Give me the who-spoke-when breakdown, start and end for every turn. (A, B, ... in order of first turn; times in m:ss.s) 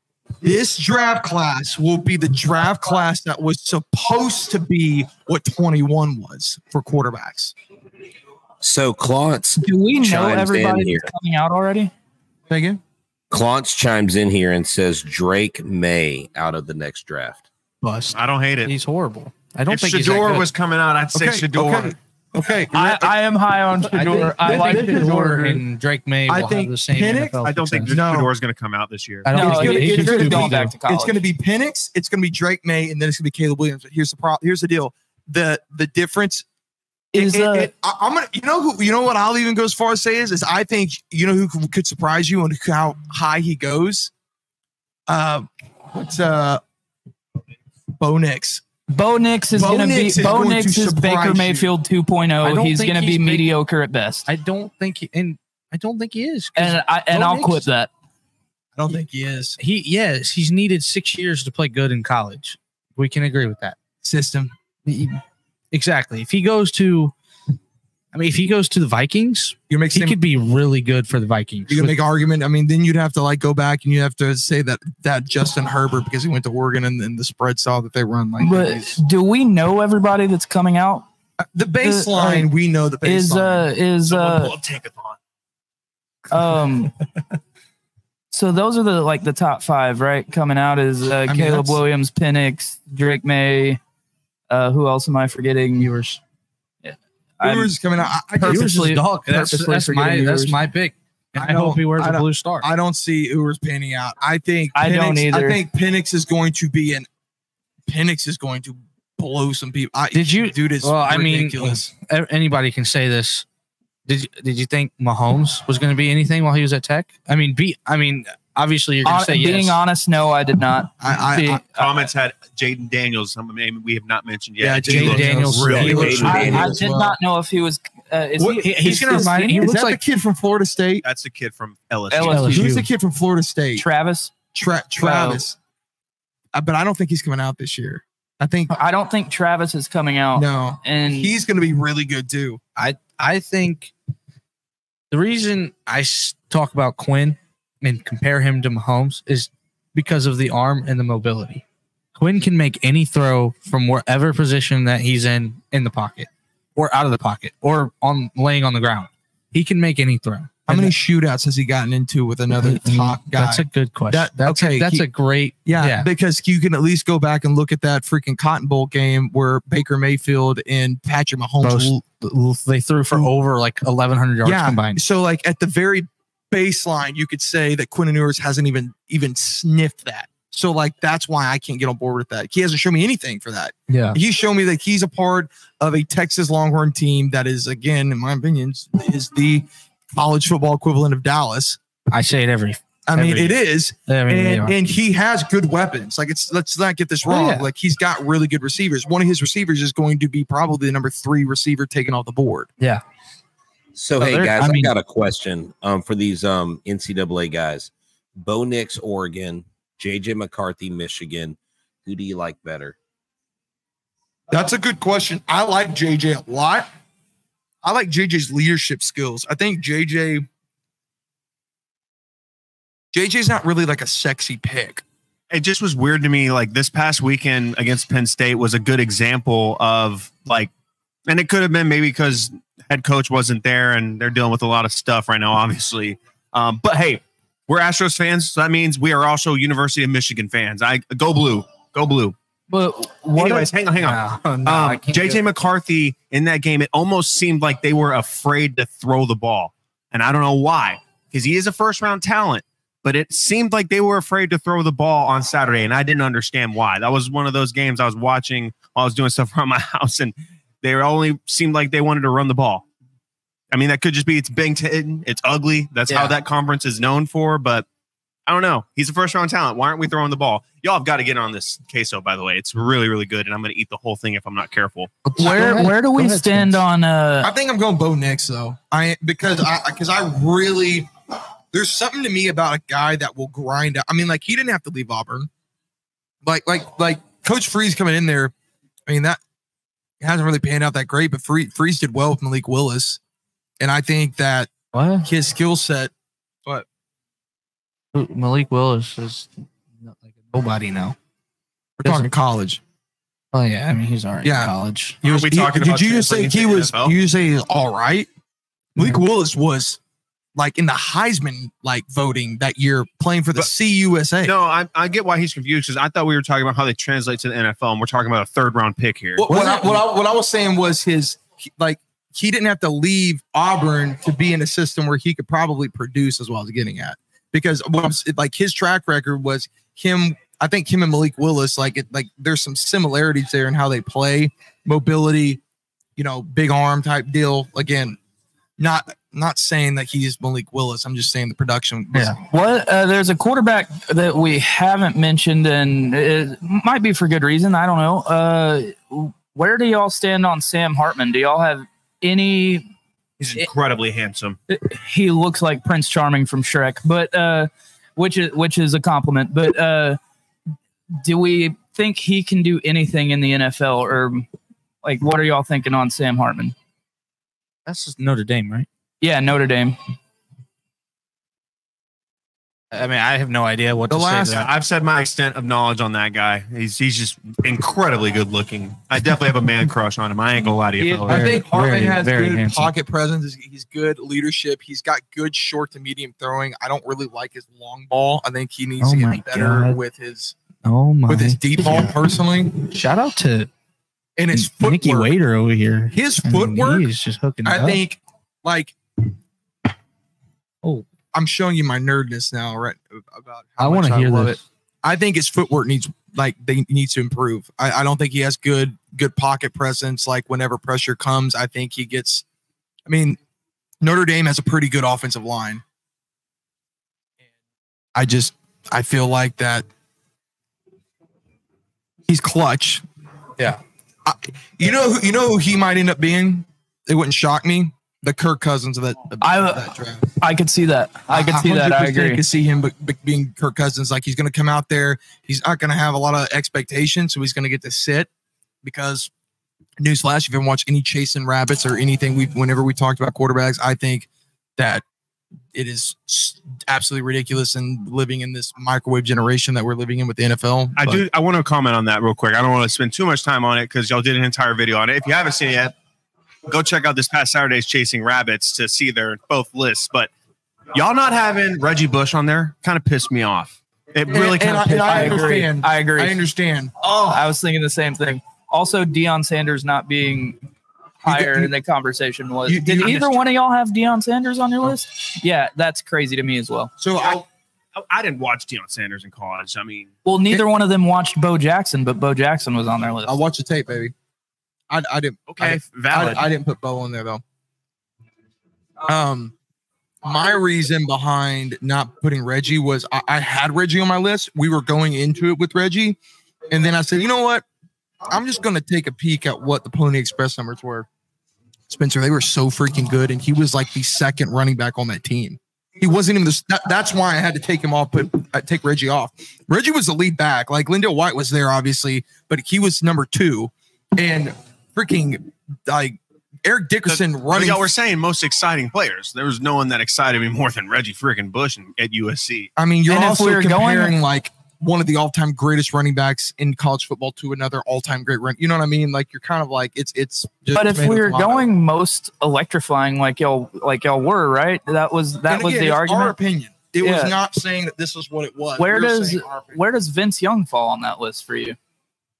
0:00.4-0:07.5 A
0:08.6-0:11.1 B
0:09.6-0:11.9 C
0:12.5-0:12.8 A
0:13.3-0:17.5 B
0:17.8-0:20.5 D
0:18.1-0:18.7 E
0:19.7-0:22.0 E
0:21.1-0:23.1 A
0:22.7-0:25.3 C
0:23.8-0:28.0 D
0:24.0-0:25.6 A
0:26.3-0:28.3 A
0:27.4-0:29.3 E
0:29.2-0:30.7 D
0:29.3-0:31.2 C
0:29.4-0:36.4 A
0:37.1-0:37.7 C
0:37.1-0:44.1 A
0:45.1-0:46.6 A
0:48.0-0:48.6 A
0:48.9-0:54.3 C
0:49.5-0:51.7 A
0:52.4-0:53.5 D
0:54.3-0:57.7 D
0:56.6-0:57.9 C
0:58.8-0:59.6 A
0:59.6-1:03.8 D
1:04.0-1:04.5 A
1:04.9-1:07.1 D
1:08.1-1:12.0 D
1:09.7-1:10.2 A
1:11.7-1:19.0 A
1:18.4-1:21.1 C
1:21.4-1:23.7 A
1:21.8-1:22.5 C
1:23.0-1:24.5 C
1:24.1-1:25.2 E
1:26.3-1:26.9 C
1:28.3-1:33.8 C
1:31.3-1:31.8 A
1:34.5-1:36.0 C
1:35.8-1:36.2 D
1:36.8-1:37.8 C
1:37.4-1:38.7 A
1:38.4-1:40.6 C
1:38.4-1:42.7 D
1:41.4-1:47.1 A
1:44.7-1:45.6 C
1:47.9-1:51.9 A
1:50.1-1:53.4 D
1:54.1-1:59.8 D
1:59.0-2:01.9 C
2:01.0-2:01.6 A
2:01.7-2:06.1 E
2:04.6-2:07.2 A
2:04.9-2:06.6 D
2:05.6-2:06.8 B
2:06.2-2:09.7 C
2:08.4-2:11.0 A
2:08.6-2:10.0 D
2:11.0-2:12.5 E
2:12.1-2:12.8 C
2:12.2-2:12.9 D
2:12.5-2:13.8 A
2:13.8-2:14.3 C
2:14.5-2:15.6 A
2:15.0-2:15.4 C
2:16.5-2:18.7 A
2:18.7-2:21.3 C
2:20.4-2:22.6 A
2:22.8-2:23.9 D
2:25.1-2:31.6 D
2:32.1-2:40.9 D
2:40.7-2:45.1 A
2:42.6-2:46.1 D
2:45.7-2:52.0 A
2:51.6-2:55.0 D
2:54.4-3:11.8 A
3:03.9-3:04.2 D
3:12.1-3:13.6 D
3:13.1-3:22.7 A
3:14.1-3:14.7 D
3:17.3-3:17.7 D
3:23.9-3:33.0 B
3:24.2-3:24.9 D
3:34.5-3:36.9 A
3:37.8-3:40.4 A
3:43.1-3:45.0 A
3:45.5-3:50.7 E
3:51.3-4:02.4 E
4:02.7-4:05.4 D
4:03.3-4:22.9 E
4:23.7-4:27.9 E
4:26.1-4:26.4 D
4:28.5-4:35.1 E
4:35.2-4:36.8 D
4:35.4-4:37.5 C
4:37.4-4:41.1 A
4:41.7-4:45.5 A
4:46.4-4:48.5 A
4:49.1-4:49.4 A
4:50.2-4:53.2 A
4:53.8-4:54.7 A
4:54.9-4:55.3 D
4:55.2-4:56.1 A
4:58.1-5:01.2 D
5:02.0-5:02.8 A
5:03.5-5:05.2 D
5:04.4-5:08.3 A
5:05.2-5:07.2 E
5:09.0-5:10.0 A
5:10.6-5:14.5 A
5:14.4-5:19.5 E
5:19.4-5:35.6 A
5:19.5-5:20.0 D
5:36.2-5:38.2 A
5:38.8-5:42.4 A
5:42.4-5:52.9 C
5:53.4-5:54.6 E
5:54.7-6:00.2 C
6:01.2-6:04.5 C
6:05.0-6:06.7 C
6:07.9-6:08.9 D
6:09.2-6:10.0 C
6:12.9-6:14.7 D
6:14.1-6:14.7 A
6:14.5-6:21.5 E
6:21.2-6:22.9 D
6:21.3-6:30.6 A
6:29.0-6:30.0 D
6:30.8-6:32.2 D
6:31.3-6:32.9 A
6:32.8-6:33.7 D
6:34.4-6:35.4 A
6:34.5-6:38.0 D
6:36.1-6:37.1 A
6:37.6-6:38.9 A
6:41.3-6:52.4 A
6:43.8-6:44.6 D
6:53.1-6:53.4 A
6:54.0-6:55.8 A
6:58.2-6:59.9 A
7:02.3-7:03.0 A
7:04.2-7:10.3 A
7:09.4-7:12.4 C
7:11.3-7:18.3 A
7:18.8-7:19.3 A
7:20.0-7:25.0 A
7:25.7-7:31.2 A
7:31.0-7:35.9 E
7:36.7-7:40.3 E
7:40.9-7:45.6 E
7:44.3-7:46.9 A
7:45.1-7:46.4 C
7:47.0-7:47.4 E
7:47.3-7:50.6 C
7:51.2-7:56.9 C
7:51.2-7:51.7 A
7:52.6-7:53.4 A
7:57.0-7:57.4 A
7:57.9-8:00.1 E
8:00.3-8:03.4 C
8:03.3-8:04.1 A
8:04.9-8:07.4 A
8:05.5-8:06.5 E
8:09.1-8:09.5 A
8:10.2-8:16.2 A
8:16.7-8:17.6 A
8:18.3-8:21.1 A
8:21.9-8:37.9 A
8:37.1-8:42.7 E
8:42.8-8:51.6 A
8:43.1-8:44.2 C
8:50.7-8:56.4 C
8:55.5-8:59.8 A
8:57.0-8:57.4 C
8:58.8-9:01.8 C